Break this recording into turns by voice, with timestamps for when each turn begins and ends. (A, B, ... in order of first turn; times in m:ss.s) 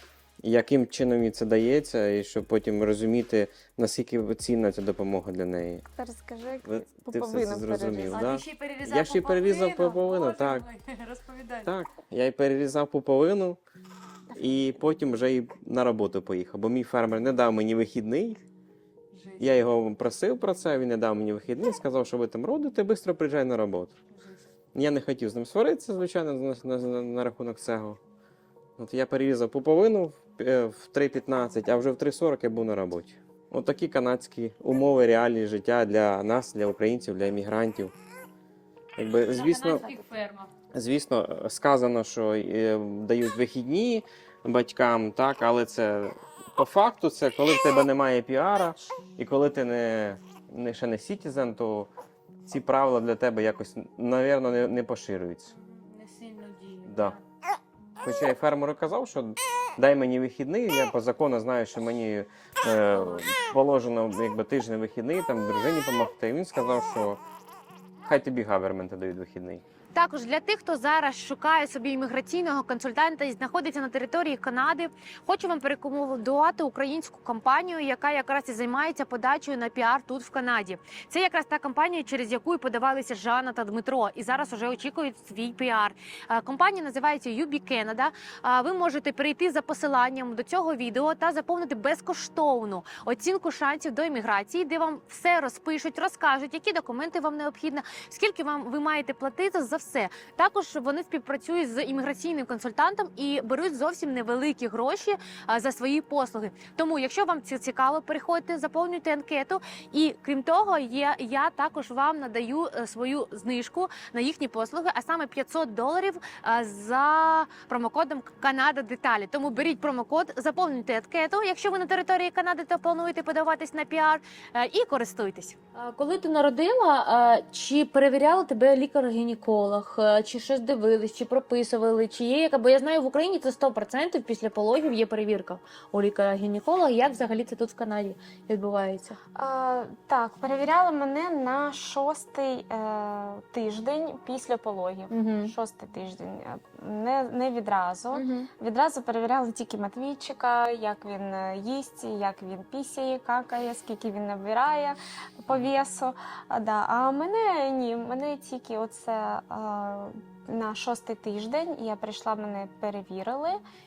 0:00.4-0:05.8 A
0:05.9-0:08.2 B
0:06.6-0:10.7 A
0:08.1-0:11.7 C
0:11.6-0:13.6 A
0:14.3-0:18.4 A
0:19.1-0:19.6 C
0:19.4-0:23.9 A
0:24.1-0:24.4 C
0:24.7-0:28.0 A
0:28.8-0:37.9 A
0:39.0-0:39.9 A
0:39.3-0:40.5 C
0:40.7-0:51.9 A
0:52.4-0:55.5 A
0:55.5-0:57.2 C
0:56.8-0:57.2 A
0:58.0-1:07.2 A
1:08.0-1:09.6 A
1:09.9-2:19.2 C
2:19.4-2:43.6 B
2:25.1-2:25.5 C
2:28.1-2:28.5 C